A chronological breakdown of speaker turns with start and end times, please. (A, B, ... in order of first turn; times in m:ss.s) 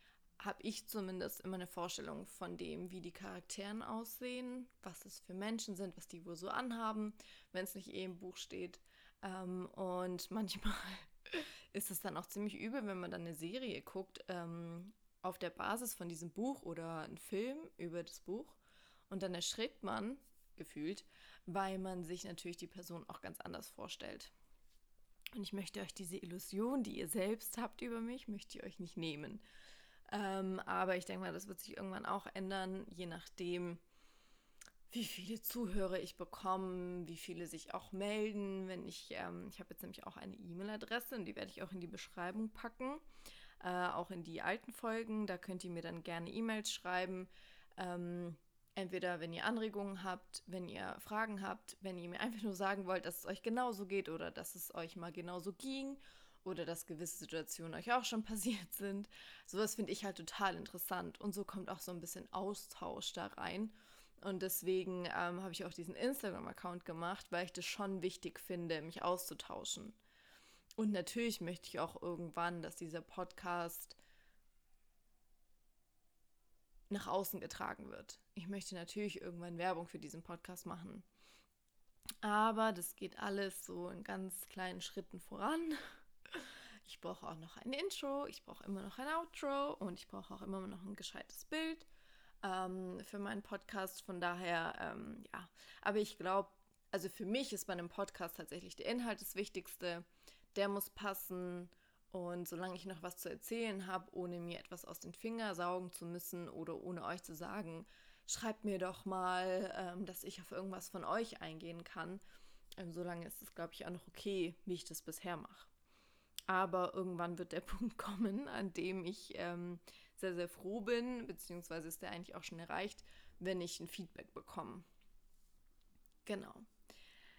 0:00.4-0:24.3 A
0:25.3-0:29.4 A
0:30.1-0:33.8 A
0:34.9-0:43.0 A
0:43.6-1:10.0 A
1:10.8-1:14.0 A
1:16.9-1:21.0 A
1:22.2-1:31.9 A
1:32.4-1:52.2 A
1:52.8-1:55.7 A
1:56.5-2:04.8 A
2:06.2-2:06.7 A